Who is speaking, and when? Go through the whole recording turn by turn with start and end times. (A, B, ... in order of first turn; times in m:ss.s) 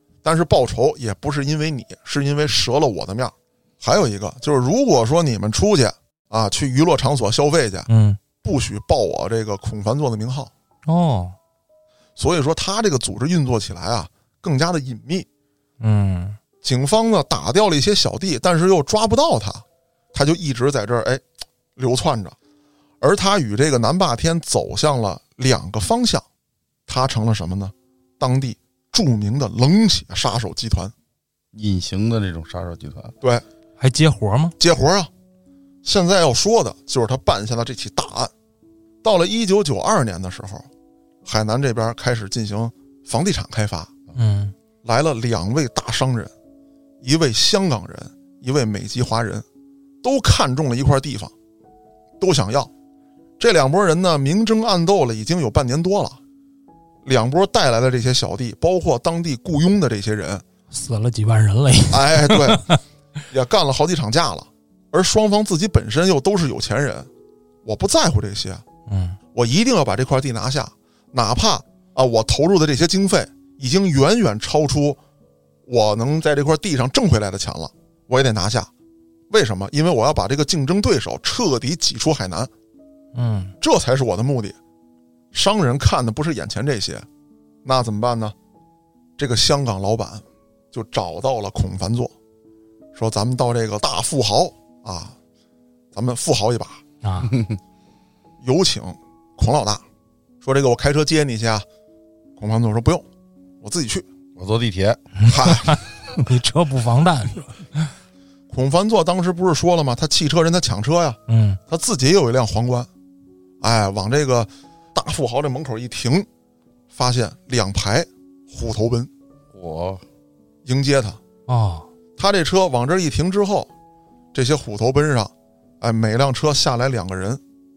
0:00.2-0:07.9 A
0:07.9-0:08.2 B
0:08.4-0:10.5 A
0:10.9-0:11.4 B
0:12.2-0:15.3 A
0:15.8-0:16.4 B
0:16.6-0:21.2 A
0:21.8-0:22.4 A
0:23.0-0:26.2 A
0:26.9-0:30.9 A
0:31.5-0:33.1 C
0:33.8-0:34.6 B
0:34.6-0:35.1 A
0:35.8-0:38.3 A
0:39.0-0:40.7 A
0:41.2-0:43.9 A
0:44.2-0:44.5 B
0:44.8-0:46.3 A
0:47.0-0:49.5 A
0:50.0-0:51.3 A
0:52.2-0:52.7 A
0:53.4-0:56.2 A
0:57.0-1:00.4 A
1:00.7-1:02.8 B
1:01.9-1:02.7 A
1:03.3-1:07.1 A
1:07.6-1:08.6 A
1:08.9-1:09.2 B
1:09.4-1:15.0 A
1:15.7-1:18.7 A
1:19.3-1:22.5 A
1:23.1-1:23.5 B
1:23.6-1:24.6 A
1:25.3-1:27.1 A
1:27.6-1:28.4 A
1:29.2-1:32.1 A
1:33.0-1:35.2 A
1:35.9-1:36.8 A
1:37.0-1:37.3 B
1:37.2-1:37.6 C
1:38.4-1:39.8 A
1:40.4-1:41.6 A
1:42.4-1:43.1 A
1:43.6-1:44.1 A
1:44.4-1:45.3 C
1:45.3-1:45.8 A
1:45.3-1:47.9 B
1:48.5-1:52.9 A
1:51.3-1:51.6 B
1:53.6-1:56.3 A
1:56.9-1:59.1 A
1:59.5-2:00.0 C
2:00.6-2:01.2 A
2:01.5-2:01.9 B
2:02.2-2:03.7 A
2:04.3-2:07.4 A